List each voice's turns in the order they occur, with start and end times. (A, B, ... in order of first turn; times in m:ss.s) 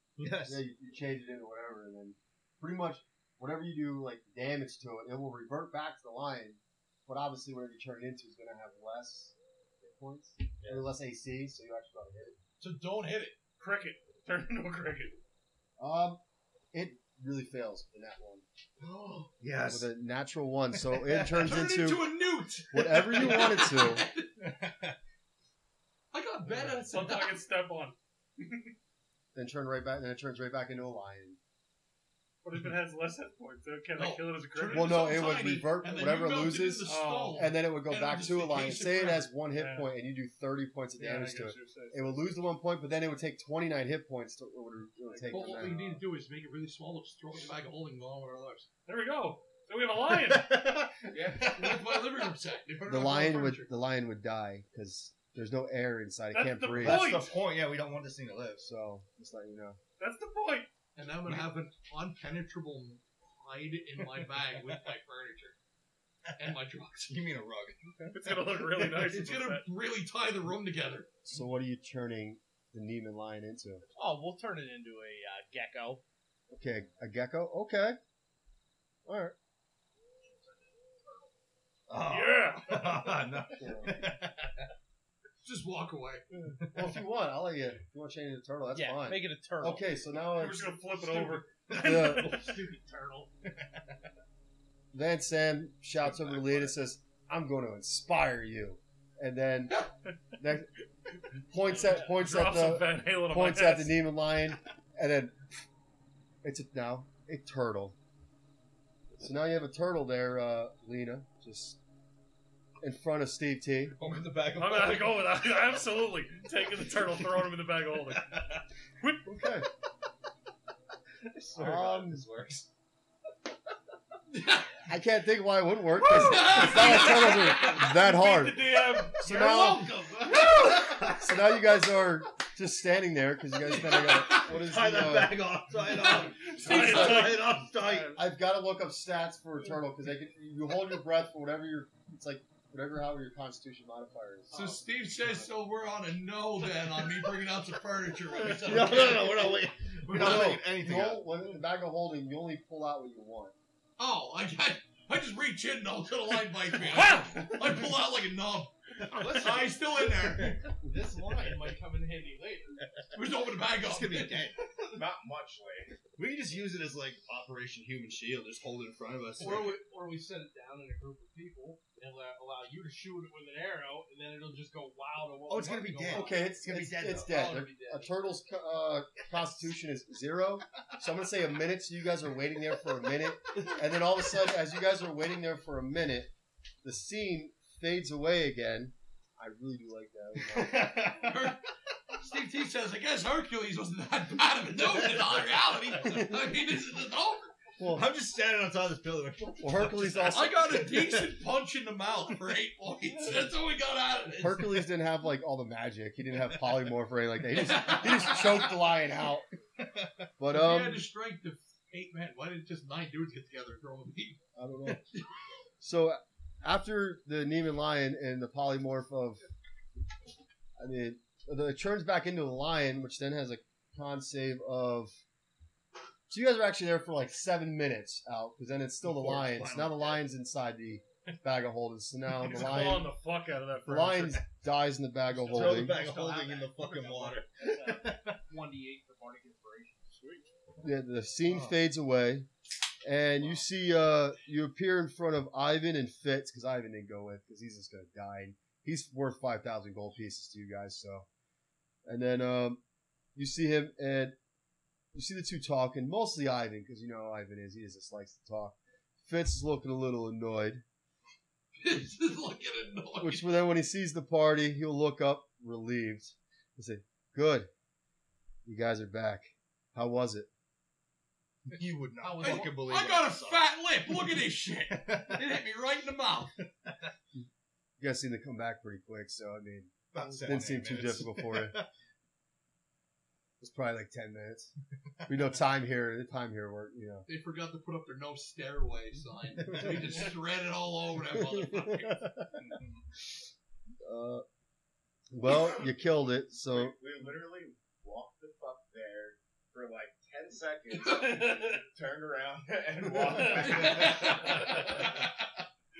0:00.2-0:00.6 A
0:00.4-0:12.4 B
0:10.6-0:10.9 C
0:12.6-0:13.4 D
0:13.6-0:15.2 E
0:15.8-0:16.2 B
0:16.7-0:18.4 B
0:18.8-0:19.9 A
0:19.6-0:22.2 B
0:20.7-0:21.6 A
0:21.4-0:24.4 D
0:22.7-0:24.0 B
0:23.1-0:23.6 A
0:24.4-0:25.0 A
0:26.1-0:27.4 D
0:26.5-0:26.8 A
0:26.7-0:28.7 E
0:29.3-0:31.4 B
0:32.4-0:35.1 E
0:34.0-0:39.3 D
0:34.7-0:45.8 B
0:36.8-0:37.5 E
0:39.5-0:39.9 E
0:41.0-0:42.2 E
0:45.1-0:45.9 E
0:45.3-0:48.7 D
0:48.8-0:50.7 E
0:50.0-0:52.3 A
0:51.1-0:53.7 D
0:52.8-0:57.1 B
0:56.3-0:57.4 E
0:56.8-0:58.7 A
0:58.6-0:59.8 B
1:00.0-1:00.7 E
1:01.0-1:05.6 D
1:01.2-1:01.5 A
1:04.0-1:04.8 A
1:06.3-1:08.5 A
1:06.4-1:07.2 D
1:08.1-1:09.7 E
1:08.8-1:11.1 D
1:11.2-1:13.8 B
1:13.8-1:16.0 F
1:16.5-1:18.0 B
1:19.0-1:19.3 B
1:20.2-1:21.2 C
1:21.9-1:24.6 A
1:22.0-1:23.1 E
1:23.6-1:24.0 B
1:25.4-1:26.2 D
1:26.6-1:26.9 A
1:26.7-1:32.4 B
1:28.7-1:29.8 F
1:30.3-1:32.4 E
1:31.7-1:32.6 A
1:31.8-1:33.3 F
1:33.5-1:34.0 A
1:34.9-1:39.8 B
1:36.0-1:36.7 A
1:40.4-1:40.7 B
1:41.5-1:45.4 B
1:41.6-1:44.1 E
1:46.4-1:48.0 B
1:49.2-1:51.8 B
1:52.8-1:54.0 B
1:54.0-1:55.8 A
1:54.5-1:59.3 E
1:56.8-1:57.5 A
1:58.1-1:58.6 A
1:59.2-1:59.7 B
2:01.2-2:02.7 A
2:01.5-2:02.2 B
2:04.3-2:04.8 D
2:04.9-2:09.9 B
2:06.0-2:08.0 D
2:06.4-2:09.5 E
2:09.2-2:11.1 D
2:09.2-2:11.4 A
2:10.9-2:15.4 B
2:13.6-2:14.5 D
2:14.1-2:18.2 A
2:15.8-2:17.4 D
2:16.6-2:17.5 E
2:16.7-2:17.1 B
2:18.1-2:24.8 B
2:24.5-2:29.6 D
2:28.4-2:31.4 A
2:30.1-2:33.5 B
2:34.0-2:40.6 D
2:36.9-2:37.6 E
2:39.0-2:41.8 A
2:39.2-2:39.5 F
2:40.8-2:42.8 F
2:43.1-2:44.5 D
2:43.6-2:44.7 A
2:44.9-2:46.1 C
2:46.1-2:49.8 A
2:49.4-2:49.7 D
2:49.4-2:56.5 F
2:55.5-2:57.6 A
2:56.1-3:06.3 B
2:57.2-2:58.0 D
2:57.8-2:58.1 F
3:06.8-3:11.0 B
3:10.5-3:11.4 A
3:11.0-3:11.6 D
3:12.2-3:17.5 D
3:16.0-3:16.3 B
3:17.8-3:18.1 B
3:17.9-3:21.4 A
3:19.6-3:20.8 B
3:20.2-3:24.8 D
3:24.4-3:29.4 B
3:27.5-3:28.7 D
3:29.8-3:30.3 A
3:30.4-3:31.0 B
3:30.5-3:34.4 D
3:34.6-3:35.0 B
3:35.8-3:39.4 B
3:40.8-3:45.2 B
3:46.3-3:53.1 B
3:49.0-3:50.2 A
3:52.4-3:54.4 E
3:53.8-3:56.0 B
3:55.4-3:58.4 A
3:55.5-4:00.5 F
4:00.8-4:02.5 B
4:01.4-4:01.8 A
4:03.0-4:11.3 B
4:12.0-4:12.8 B
4:13.3-4:14.4 B
4:15.1-4:20.8 B
4:21.8-4:23.6 D
4:23.2-4:27.7 B
4:28.6-4:30.5 B
4:31.7-4:35.5 A
4:32.2-4:36.5 D
4:38.0-4:41.8 B
4:40.1-4:41.9 A
4:43.6-4:44.7 B
4:45.2-4:47.3 B
4:47.2-4:52.2 D
4:49.5-4:50.3 A
4:51.3-4:52.7 B
4:52.6-4:53.0 A
4:54.0-4:54.4 B
4:55.3-4:56.9 B
4:56.7-5:05.1 C
5:03.5-5:04.3 A
5:03.7-5:04.6 D